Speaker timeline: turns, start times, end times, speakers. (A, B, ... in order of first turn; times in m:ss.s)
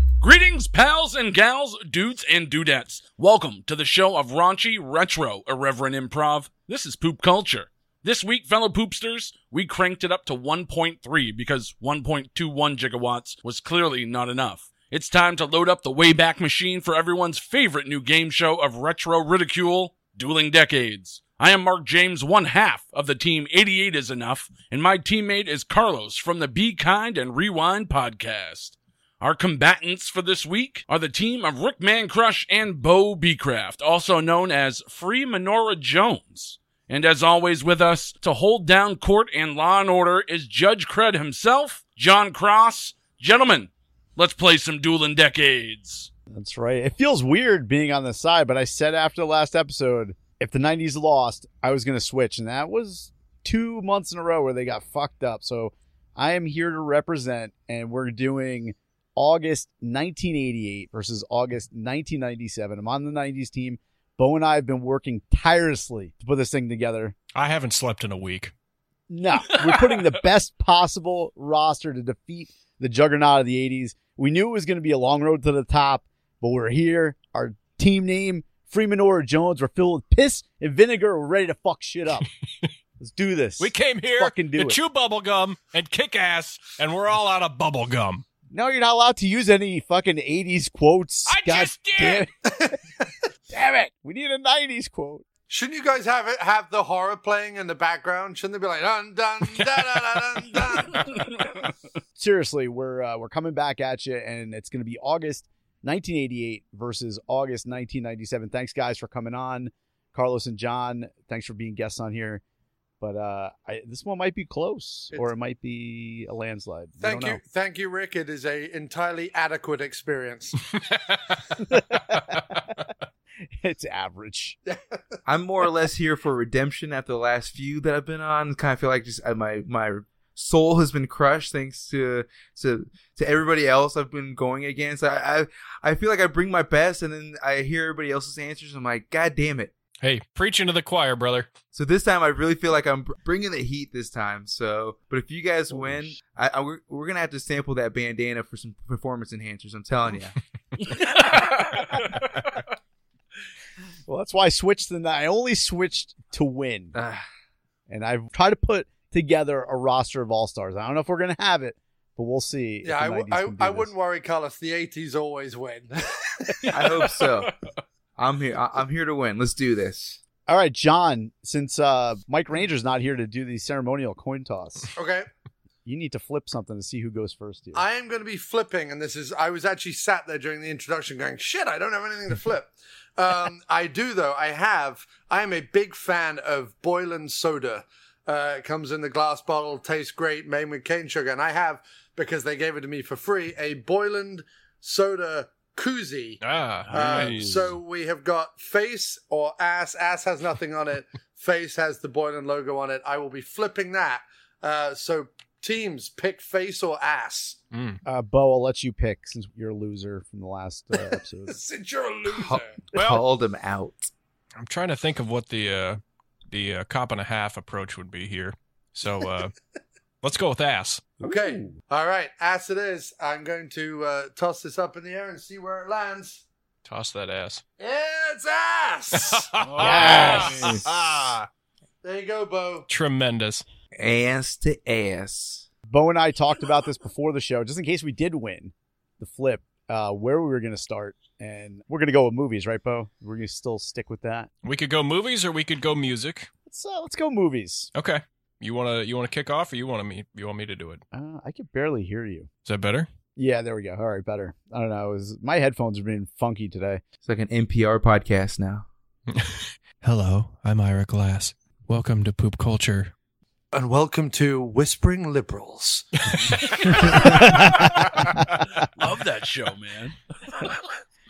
0:00.2-0:46.1 A
0:46.3-1:07.2 B
1:07.3-1:08.5 C
1:09.1-1:22.3 B
1:23.0-1:24.8 B
1:23.6-1:28.2 C
1:28.5-1:32.7 B
1:31.2-1:32.2 C
1:33.5-1:35.2 B
1:35.5-1:41.2 D
1:42.2-1:52.4 B
1:53.0-1:57.4 B
1:57.0-2:00.6 D
2:01.7-2:02.7 B
2:03.6-2:04.6 B
2:05.3-2:19.7 E
2:20.0-2:21.5 C
2:21.7-2:30.4 E
2:25.7-2:26.1 B
2:30.9-2:32.1 A
2:34.0-2:36.9 B
2:36.9-2:37.2 E
2:37.9-2:43.9 B
2:42.8-2:46.6 D
2:46.7-2:47.5 E
2:48.2-2:50.2 E
2:50.5-2:54.9 B
2:55.0-2:55.3 D
2:55.8-2:57.8 B
2:57.7-3:27.6 D
3:16.4-3:17.7 C
3:16.9-3:17.5 A
3:27.7-3:28.0 C
3:28.0-3:31.6 B
3:31.0-3:32.8 D
3:32.3-3:34.1 E
3:34.6-3:39.5 C
3:40.2-3:41.2 C
3:41.2-3:46.4 D
3:41.3-3:41.7 B
3:46.8-3:47.6 C
3:47.8-3:49.5 D
3:49.2-3:51.5 C
3:49.6-3:50.7 A
3:49.8-3:50.7 B
3:50.4-3:50.8 E
3:52.0-3:52.9 D
3:52.9-3:53.6 C
3:54.0-3:55.6 E
3:55.9-4:04.5 B
4:04.6-4:06.5 C
4:06.6-4:07.9 B
4:07.9-4:11.0 C
4:11.1-4:12.5 B
4:12.6-4:13.1 C
4:13.4-4:17.0 B
4:17.2-4:18.9 E
4:19.3-4:23.1 C
4:23.7-4:26.3 D
4:26.9-4:27.7 A
4:27.4-4:27.7 B
4:29.0-4:30.8 A